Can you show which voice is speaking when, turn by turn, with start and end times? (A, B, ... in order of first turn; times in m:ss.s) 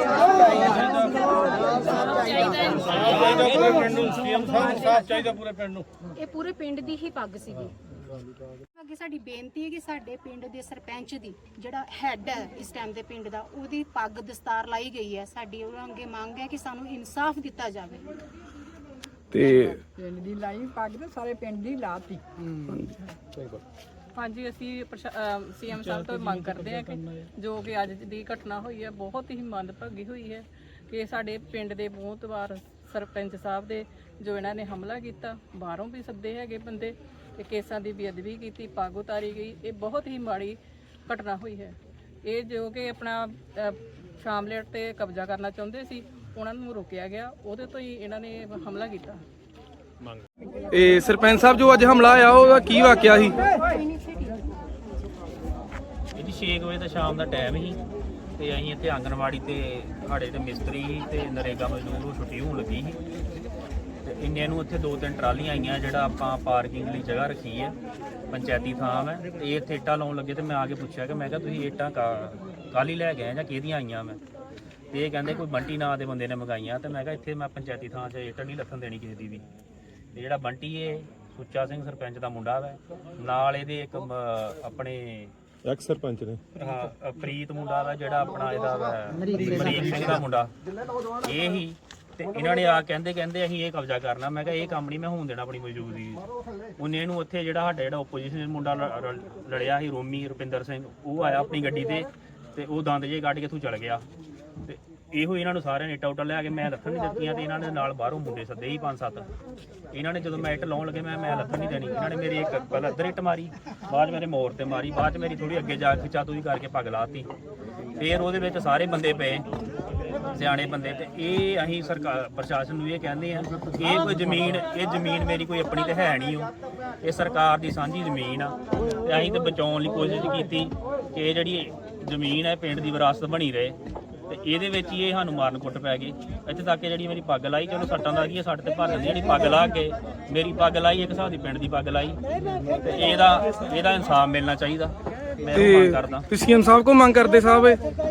0:00.8-0:01.5 A
0:02.9-0:05.9 A
0:03.0-0:03.8 B
0:04.0-0:05.1 C
0:06.0-0:07.8 C
0:08.7-0:18.1 C
0:19.3-0:19.8 D
0:19.6-0:22.2 E
0:20.2-0:22.2 A
0:22.7-0:23.6 D
0:24.1-0:49.2 F
0:50.7-0:53.4 D
0:53.1-0:54.4 C
0:56.1-0:57.8 B
0:58.4-1:03.0 B
1:04.0-1:07.7 B
1:08.3-1:14.2 B
1:14.9-1:19.4 B
1:20.1-1:25.3 B
1:25.7-1:26.1 A
1:25.9-1:26.4 D
1:26.6-1:30.5 B
1:29.3-1:29.8 A
1:31.2-1:36.2 B
1:36.8-1:44.0 B
1:44.6-1:49.3 B
1:49.9-1:57.3 B
1:58.0-1:59.5 B
2:00.3-2:13.8 B
2:14.3-2:22.2 B
2:22.7-2:26.3 B
2:25.5-2:27.8 D